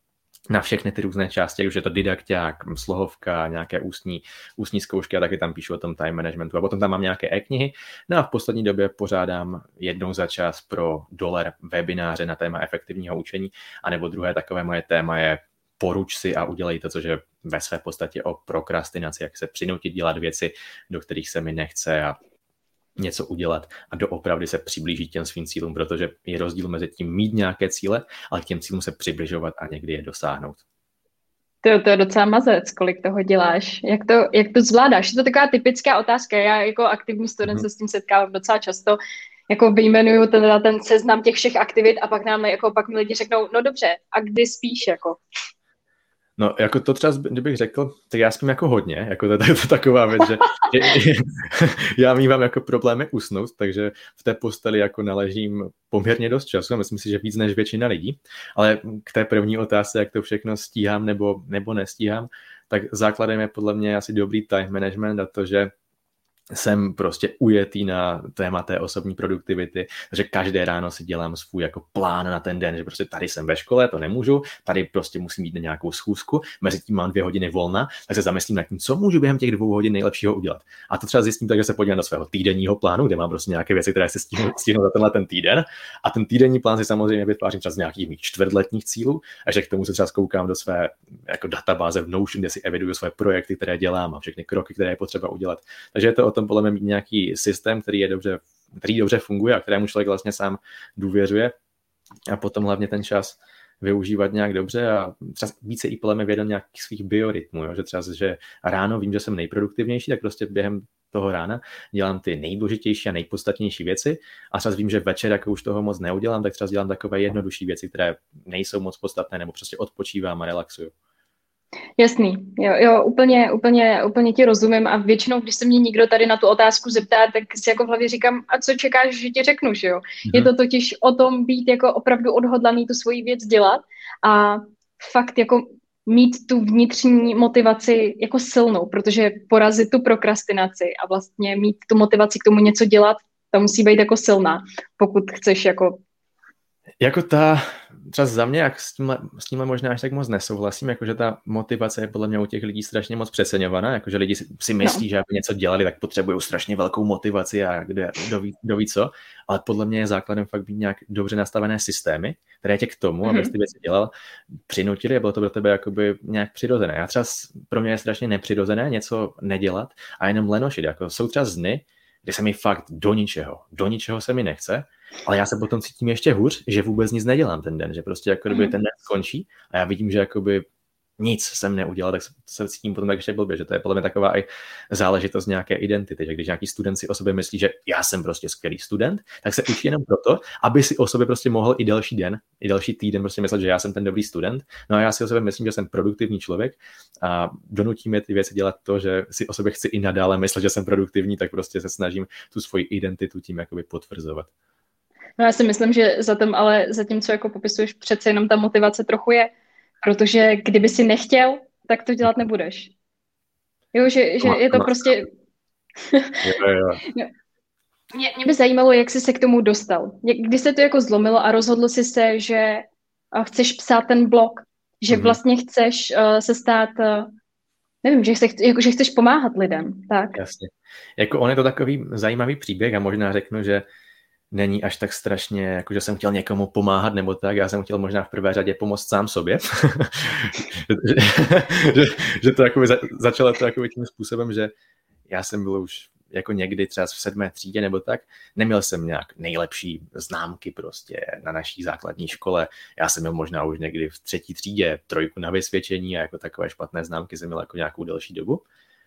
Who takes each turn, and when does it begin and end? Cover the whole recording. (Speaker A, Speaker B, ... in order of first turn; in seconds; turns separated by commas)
Speaker A: 0.5-22.2, Speaker A: 23.0-30.6, Speaker B: 31.6-39.0, Speaker B: 39.5-45.2, Speaker A: 46.4-65.7, Speaker A: 66.5-101.5, Speaker A: 102.3-120.9, Speaker B: 122.0-146.0, Speaker A: 147.0-164.1, Speaker B: 163.2-163.5, Speaker A: 164.7-180.7, Speaker B: 178.5-178.8, Speaker A: 181.2-204.5, Speaker B: 205.4-209.5, Speaker B: 210.0-212.9, Speaker B: 213.9-215.3, Speaker A: 214.4-215.2, Speaker B: 216.1-216.4, Speaker A: 216.4-217.0, Speaker B: 218.1-227.3, Speaker A: 225.1-225.4, Speaker B: 228.0-230.4, Speaker A: 230.3-233.8, Speaker A: 234.5-244.7, Speaker A: 245.3-258.6